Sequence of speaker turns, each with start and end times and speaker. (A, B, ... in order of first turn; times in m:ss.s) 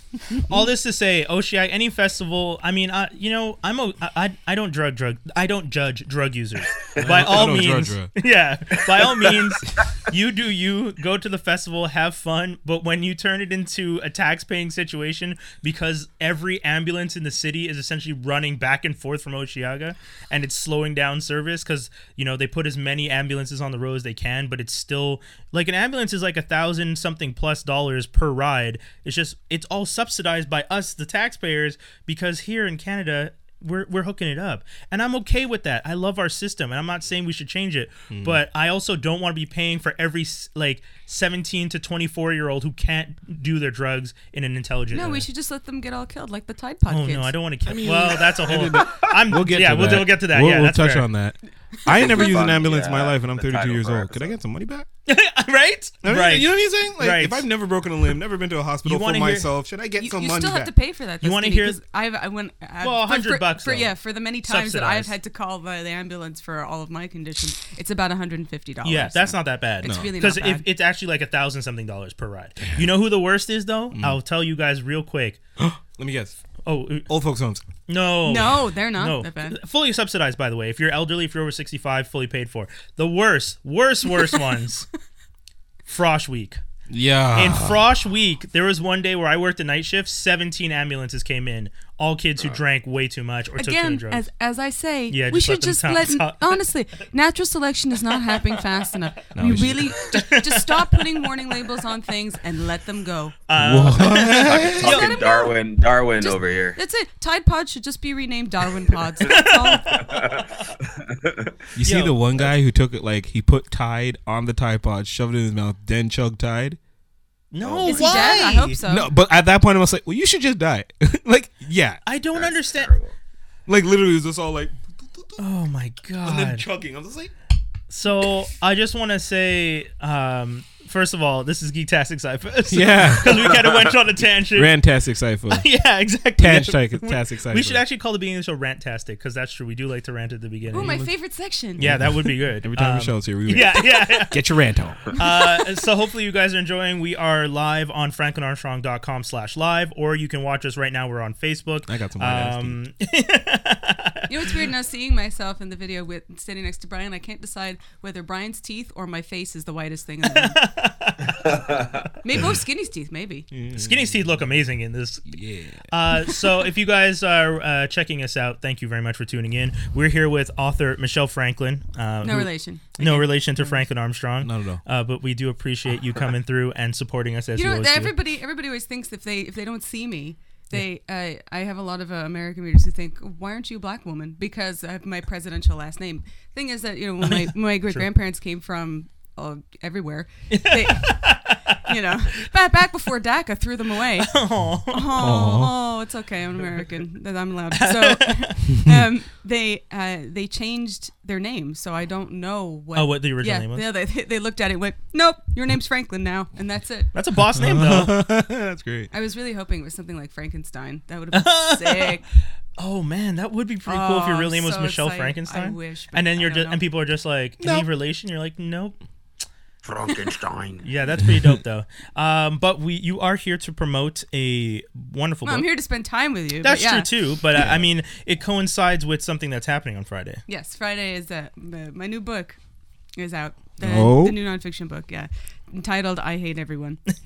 0:00.5-0:45.2 A
0:06.9-0:07.5 B
0:07.0-0:08.1 C
0:09.0-0:09.3 B
0:38.1-0:38.4 C
0:44.9-0:47.3 D
0:46.9-0:51.1 A
0:47.6-0:54.9 C
0:51.9-0:54.3 B
0:51.9-0:52.5 D
0:55.1-0:57.4 A
0:56.0-1:00.7 C
0:58.8-0:59.5 A
1:00.0-1:10.6 D
1:01.2-1:01.8 A
1:02.8-1:03.9 A
1:04.4-1:05.1 A
1:08.8-1:15.4 A
1:09.8-1:10.1 C
1:12.6-1:12.9 C
1:13.9-1:14.2 C
1:15.6-1:16.4 C
1:16.6-1:17.1 A
1:17.1-1:17.6 C
1:17.9-1:24.9 A
1:18.2-1:19.6 D
1:25.9-1:26.6 A
1:26.9-1:27.8 C
1:27.3-1:34.2 A
1:33.6-1:43.4 D
1:35.1-1:36.6 A
1:38.2-1:38.5 A
1:39.3-1:39.9 C
1:40.1-1:41.2 A
1:43.5-1:45.2 A
1:43.6-1:45.0 C
1:44.2-1:46.8 B
1:44.8-1:45.6 D
1:46.2-1:50.0 D
1:49.2-1:50.7 A
1:50.0-1:51.6 B
1:51.7-1:56.8 C
1:51.8-1:52.2 A
1:57.5-1:58.8 A
1:57.6-1:58.4 B
1:57.8-1:59.1 D
1:58.8-2:02.0 C
2:02.0-2:02.9 A
2:02.3-2:03.1 B
2:03.7-2:05.4 C
2:05.4-2:06.6 A
2:06.2-2:07.3 C
2:07.9-2:14.7 A
2:12.7-2:13.5 C
2:13.4-2:13.9 B
2:14.5-2:15.7 C
2:15.5-2:21.0 A
2:16.4-2:17.8 C
2:20.7-2:22.0 D
2:20.7-2:21.1 C
2:21.8-2:24.4 A
2:21.8-2:25.1 C
2:25.1-2:34.5 A
2:25.2-2:25.6 D
2:31.8-2:32.8 C
2:34.3-2:40.6 D
2:40.2-2:41.6 A
2:41.4-2:42.1 B
2:42.2-2:43.5 D
2:43.5-2:44.2 C
2:43.7-2:45.4 A
2:45.3-2:45.9 C
2:45.9-2:58.1 A
2:52.2-2:53.8 D
2:54.4-2:54.8 C
2:57.6-3:14.4 D
3:07.2-3:08.0 A
3:10.5-3:11.9 A
3:14.2-3:15.2 A
3:14.9-3:27.1 D
3:15.2-3:15.7 C
3:17.7-3:18.6 A
3:22.9-3:23.8 A
3:27.1-3:28.2 A
3:27.5-3:29.1 C
3:29.1-3:32.2 D
3:31.3-3:32.2 A
3:32.8-3:39.0 A
3:33.8-3:36.8 D
3:37.6-3:37.9 C
3:39.8-3:40.8 B
3:40.8-3:45.7 A
3:45.4-3:47.1 D
3:46.6-3:50.4 A
3:47.6-3:47.8 C
3:50.5-3:52.6 D
3:53.2-3:57.0 D
3:53.8-3:54.4 C